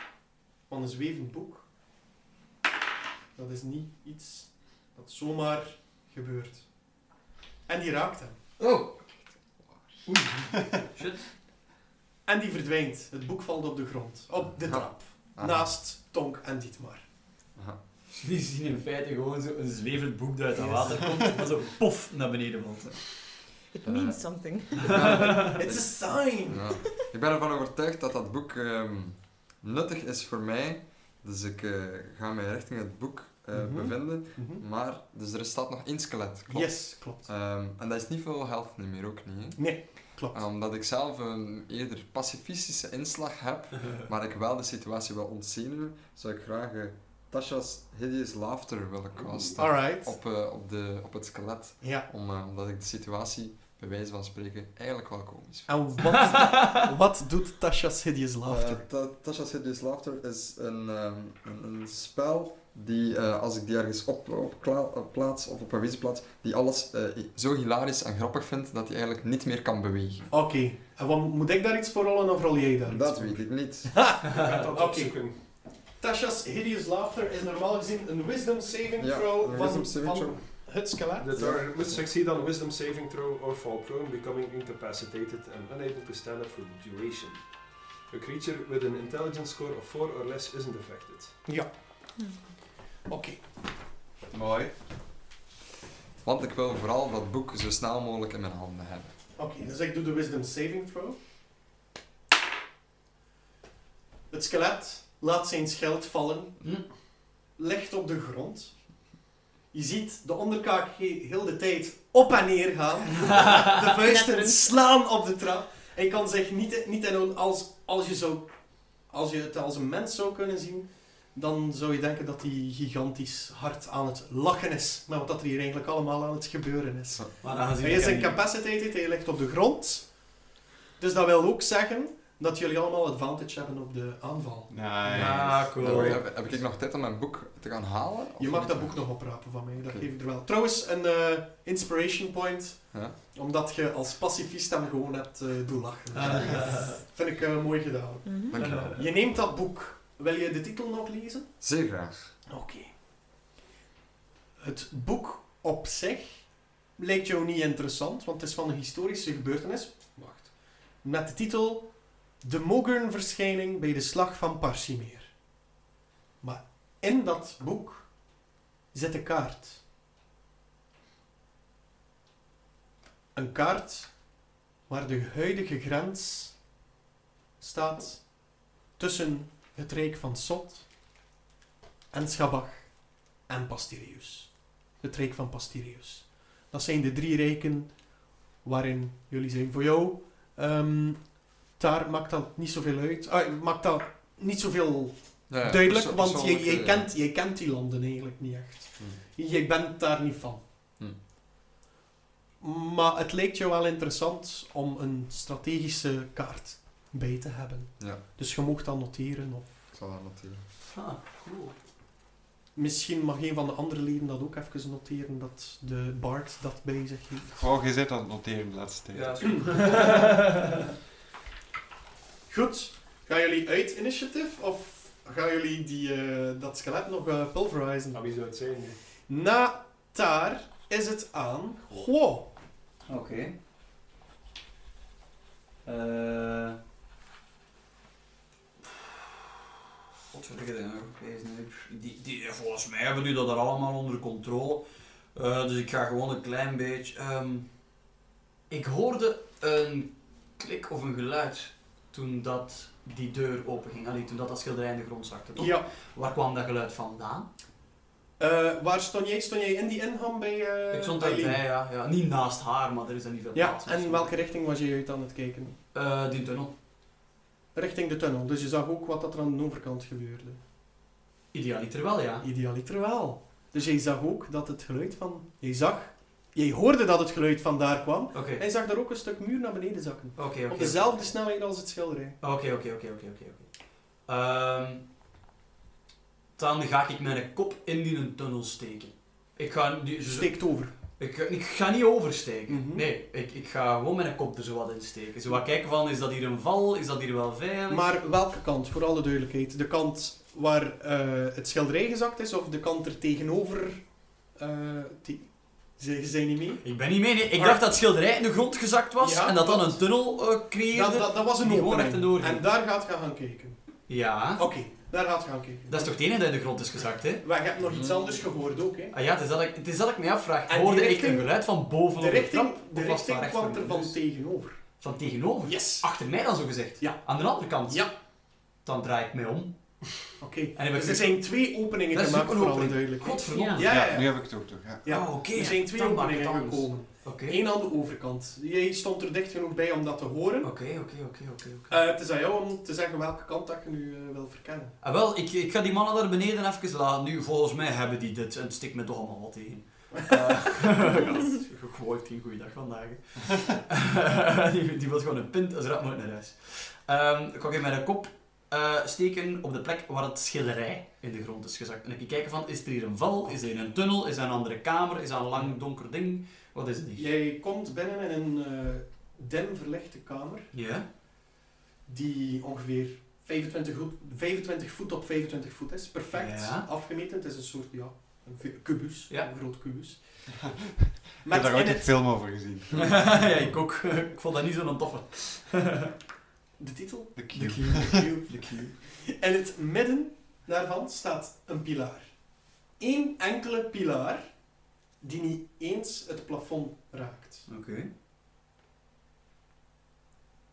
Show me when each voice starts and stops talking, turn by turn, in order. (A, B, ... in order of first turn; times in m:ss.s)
0:00.7-0:01.7 A
0:03.4-0:06.7 A
0:07.7-0:08.4 A
0:08.6-0:09.1 B
0:10.0-0:11.3 B
0:12.3-0:17.0 A
0:14.6-0:15.7 C
0:18.1-0:23.2 B
0:20.6-0:21.3 A
0:23.7-0:25.2 D
0:23.8-0:56.0 C
0:25.0-0:25.6 B
0:25.5-0:26.7 A
0:33.5-0:34.6 A
0:36.5-0:37.3 A
0:39.6-0:40.4 A
0:49.6-0:50.1 A
0:51.8-0:52.1 A
0:55.7-0:58.8 A
0:56.4-0:56.7 B
0:58.5-1:10.3 C
1:10.3-1:21.4 A
1:12.9-1:14.0 C
1:14.3-1:15.5 E
1:19.0-1:20.7 C
1:21.2-1:27.4 E
1:21.4-1:22.0 C
1:28.1-1:31.4 E
1:33.1-1:33.4 A
1:34.3-1:34.7 F
1:36.2-1:39.1 C
1:39.4-1:41.2 A
1:44.3-1:46.6 A
1:47.6-1:48.8 A
1:49.7-1:58.5 A
1:53.8-1:54.7 D
1:59.1-2:10.3 A
2:07.4-2:08.4 B
2:11.0-2:15.6 A
2:14.7-2:15.8 F
2:15.1-2:16.2 B
2:15.1-2:20.1 C
2:18.4-2:31.5 A
2:26.1-2:27.0 B
2:28.2-2:28.6 D
2:28.5-2:29.1 C
2:28.6-2:29.0 B
2:31.6-2:32.3 C
2:32.5-2:32.9 A
2:34.6-2:45.3 A
2:46.4-2:48.1 A
2:48.9-2:49.8 A
2:53.4-2:54.1 A
2:54.9-2:56.6 A
2:57.6-2:58.4 A
2:59.0-3:00.9 A
3:02.1-3:03.0 A
3:03.5-3:08.0 A
3:08.6-3:20.6 A
3:15.5-3:17.1 C
3:22.6-3:29.7 A
3:29.9-3:30.6 C
3:30.9-3:31.8 B
3:32.8-3:37.6 A
3:37.5-3:39.4 F
3:39.1-3:40.2 E
3:39.2-3:40.7 B
3:42.5-3:48.2 A
3:48.1-3:49.0 E
3:49.3-3:52.5 A
3:53.1-3:53.6 B
3:55.8-3:56.8 B
4:00.3-4:07.7 B
4:08.7-4:17.5 B
4:15.6-4:15.9 A
4:18.4-4:21.6 A
4:20.9-4:24.3 B
4:23.6-4:25.8 A
4:25.9-4:26.7 B
4:27.7-4:30.6 A
4:31.5-4:32.5 B
4:32.4-4:42.4 A
4:38.3-4:38.6 B
4:40.4-4:41.2 B
4:42.4-4:43.7 B
4:44.3-4:45.0 B
4:46.6-4:58.1 B
4:50.2-4:50.9 A
4:52.7-4:53.1 A
4:57.9-5:04.0 A
5:04.6-5:06.8 A
5:06.8-5:12.6 B
5:07.5-5:07.9 A
5:09.2-5:10.0 A
5:10.9-5:13.8 A
5:14.1-5:14.7 B
5:14.6-5:16.2 A
5:15.9-5:17.4 B
5:17.4-5:19.2 A
5:17.9-5:18.4 C
5:19.1-5:24.2 B
5:20.7-5:21.5 A
5:22.2-5:24.8 A
5:25.0-5:28.1 B
5:25.6-5:26.1 A
5:27.0-5:27.2 A
5:27.9-5:28.1 A
5:28.8-5:29.7 B
5:30.4-5:34.5 A
5:30.8-5:31.5 B
5:32.1-5:34.0 B
5:33.8-5:35.1 F
5:35.0-5:40.7 A
5:35.1-5:37.6 B
5:40.6-5:42.0 B
5:41.9-5:45.0 A
5:45.0-6:07.3 B
6:07.2-6:10.7 A
6:10.7-6:11.1 B
6:12.1-6:20.4 A
6:16.3-6:16.9 B
6:20.6-6:23.7 F
6:21.4-6:22.5 A
6:23.0-6:26.1 B
6:26.8-6:27.5 A
6:27.4-6:28.3 F
6:27.5-6:29.0 B
6:28.1-6:32.4 A
6:33.0-6:34.5 A
6:35.2-6:37.6 A
6:37.7-6:38.1 B